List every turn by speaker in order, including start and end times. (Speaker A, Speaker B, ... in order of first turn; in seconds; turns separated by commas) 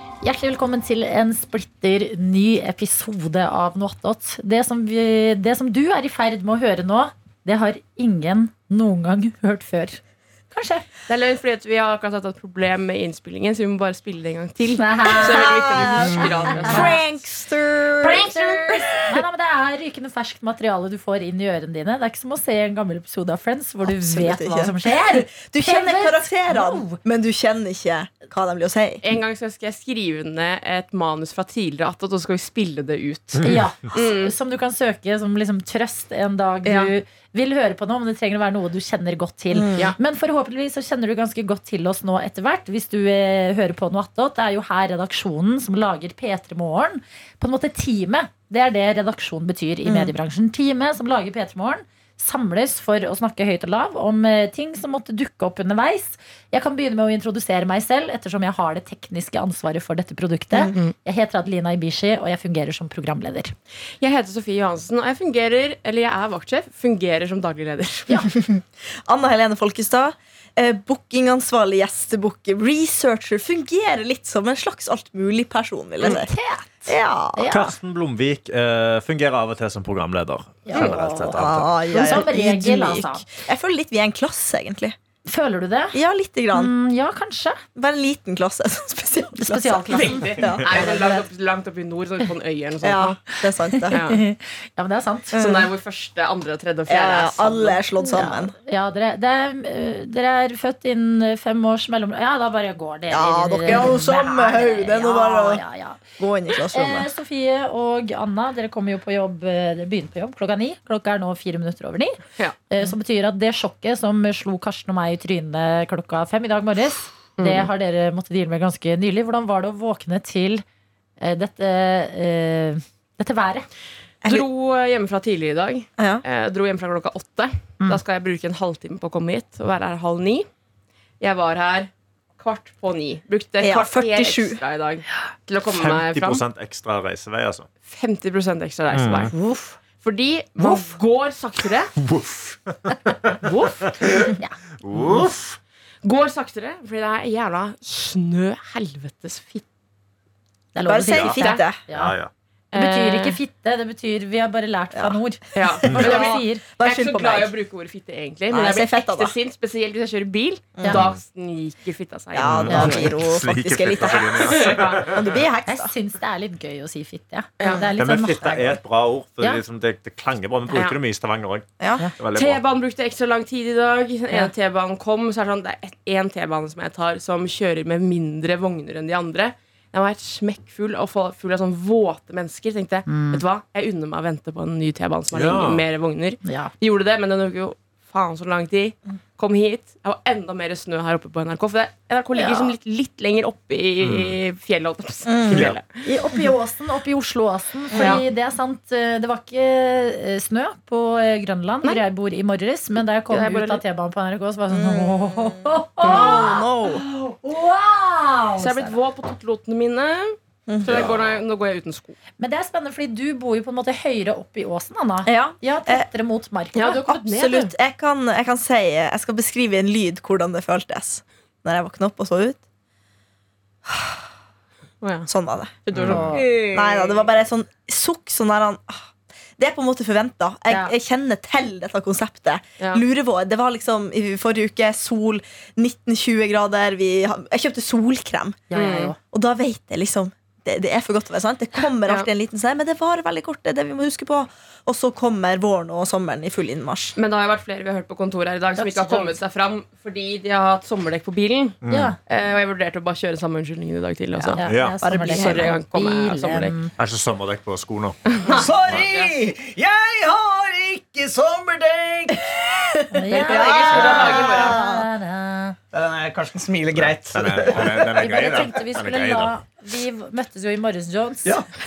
Speaker A: 0.2-10.0, Speaker A: 10.5-10.9, Speaker B: 11.1-17.1, Speaker A: 14.8-15.6, Speaker C: 15.2-19.1, Speaker A: 16.4-17.0, Speaker A: 18.0-27.0, Speaker C: 23.8-29.0, Speaker B: 29.0-34.4, Speaker A: 33.4-63.5, Speaker B: 36.7-36.9, Speaker C: 39.5-39.9, Speaker C: 49.9-50.1, Speaker B: 64.0-68.2, Speaker C: 68.3-76.3, Speaker A: 76.0-77.7, Speaker C: 76.9-77.6, Speaker D: 77.5-81.7, Speaker A: 80.7-83.3, Speaker C: 81.4-85.0, Speaker A: 85.3-86.0, Speaker C: 85.9-86.7, Speaker A: 86.5-87.6, Speaker C: 87.8-91.3, Speaker A: 89.3-90.4, Speaker B: 89.9-93.2, Speaker C: 92.8-94.0, Speaker A: 93.7-95.4, Speaker B: 93.9-94.2, Speaker C: 95.3-95.7, Speaker B: 95.4-97.8, Speaker C: 96.9-98.5, Speaker A: 98.0-106.0, Speaker C: 103.1-105.6, Speaker C: 106.2-107.1, Speaker A: 106.5-112.2, Speaker A: 112.7-120.6, Speaker B: 117.4-117.7, Speaker A: 121.2-123.7, Speaker B: 124.2-130.5, Speaker C: 126.0-126.2, Speaker B: 131.2-136.4, Speaker C: 133.6-134.6, Speaker D: 135.7-137.7, Speaker B: 137.9-139.3, Speaker D: 138.9-139.3, Speaker A: 139.3-139.8, Speaker B: 139.9-141.9, Speaker A: 140.6-140.9, Speaker D: 142.0-145.6, Speaker B: 143.4-143.9, Speaker A: 144.4-145.4, Speaker B: 146.0-149.6, Speaker A: 150.8-152.2, Speaker C: 150.8-151.8, Speaker D: 151.1-151.4, Speaker B: 151.4-151.6, Speaker D: 151.9-152.3, Speaker B: 152.7-153.4, Speaker A: 152.7-156.6, Speaker C: 154.9-157.6, Speaker B: 155.6-163.1, Speaker C: 158.5-159.3, Speaker C: 160.8-161.1, Speaker D: 160.9-161.2, Speaker C: 162.3-165.9, Speaker D: 162.4-165.4, Speaker A: 162.7-163.1, Speaker B: 164.1-165.2, Speaker A: 165.7-168.8, Speaker B: 167.6-167.9, Speaker C: 167.6-167.9, Speaker D: 168.0-171.7, Speaker B: 170.7-171.0, Speaker C: 171.8-172.1, Speaker D: 172.2-172.6, Speaker B: 172.3-196.1, Speaker A: 183.1-183.4, Speaker D: 185.3-185.8, Speaker A: 186.4-186.7, Speaker A: 192.3-192.7, Speaker D: 194.0-194.4, Speaker C: 195.3-196.6, Speaker D: 195.5-195.8, Speaker A: 196.3-209.0, Speaker B: 197.9-198.2, Speaker B: 203.3-203.8, Speaker C: 204.7-207.0, Speaker B: 206.0-206.6, Speaker B: 208.6-212.2, Speaker C: 210.7-211.1, Speaker D: 210.9-211.4, Speaker A: 212.4-217.3, Speaker C: 215.2-216.1, Speaker B: 216.8-217.7, Speaker C: 217.1-222.6, Speaker C: 223.9-224.2, Speaker B: 225.0-225.3, Speaker C: 225.3-238.7, Speaker B: 225.8-227.2, Speaker D: 225.9-226.3, Speaker A: 226.0-226.5, Speaker A: 230.7-230.9, Speaker A: 238.7-239.2, Speaker B: 238.7-239.2, Speaker C: 239.2-247.2, Speaker B: 247.2-254.6, Speaker A: 248.8-249.4, Speaker D: 251.8-252.1, Speaker A: 251.9-252.2, Speaker A: 254.4-256.9, Speaker D: 254.6-255.0, Speaker C: 255.0-255.8, Speaker B: 255.2-256.8, Speaker D: 257.0-258.2, Speaker B: 258.3-259.3, Speaker E: 258.5-264.6, Speaker A: 263.1-265.8, Speaker B: 263.3-264.8, Speaker C: 263.4-265.1, Speaker E: 265.9-268.1, Speaker D: 266.9-269.6, Speaker A: 267.9-271.6